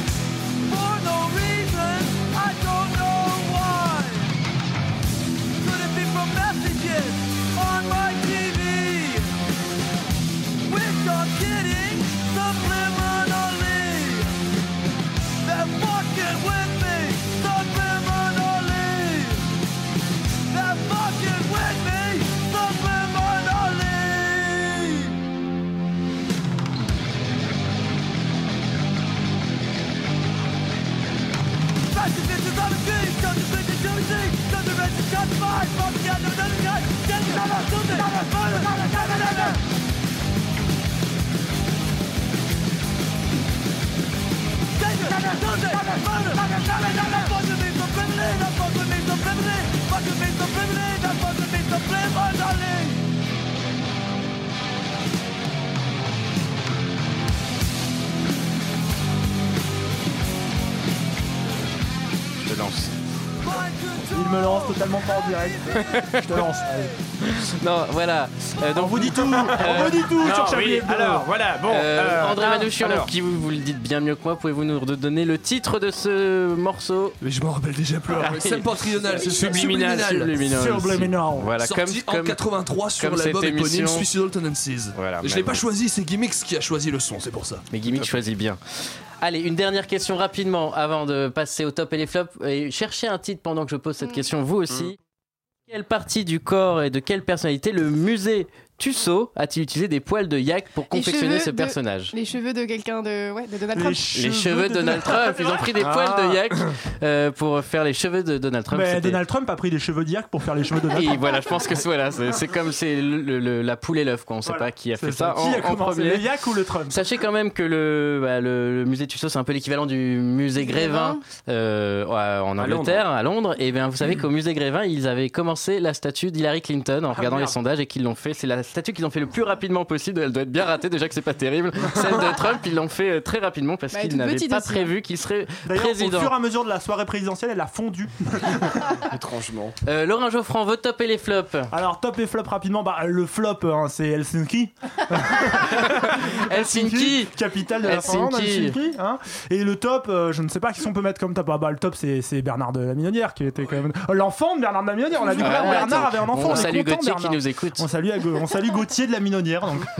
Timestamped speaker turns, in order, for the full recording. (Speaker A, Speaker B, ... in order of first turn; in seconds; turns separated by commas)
Speaker A: 0.6-4.3, Speaker A: 5.6-9.3, Speaker A: 10.6-14.3, Speaker A: 15.4-19.6, Speaker A: 20.5-25.2, Speaker A: 31.9-39.6, Speaker A: 44.7-53.0, Speaker B: 62.4-62.9, Speaker A: 63.4-66.2, Speaker C: 64.1-66.9, Speaker B: 65.7-66.4, Speaker B: 67.2-70.2, Speaker C: 68.7-71.3, Speaker D: 70.2-73.1, Speaker B: 71.7-77.2, Speaker E: 77.2-80.3, Speaker B: 78.2-82.4, Speaker D: 79.2-80.0, Speaker C: 80.4-81.5, Speaker E: 81.5-87.6, Speaker B: 83.0-84.1, Speaker B: 84.9-85.6, Speaker B: 87.7-88.6, Speaker B: 89.2-95.0, Speaker B: 95.7-102.1, Speaker F: 100.9-104.1, Speaker C: 103.7-106.3, Speaker B: 104.1-109.2, Speaker C: 108.7-111.8, Speaker B: 110.9-116.2, Speaker C: 114.4-117.0, Speaker B: 116.9-136.3, Speaker F: 120.6-121.2, Speaker D: 122.6-123.0, Speaker C: 127.1-127.5, Speaker F: 133.9-134.9, Speaker C: 135.7-138.9, Speaker D: 139.0-139.7, Speaker B: 139.8-141.7, Speaker C: 141.7-159.9, Speaker B: 145.7-148.8, Speaker F: 155.3-156.0, Speaker B: 155.4-157.8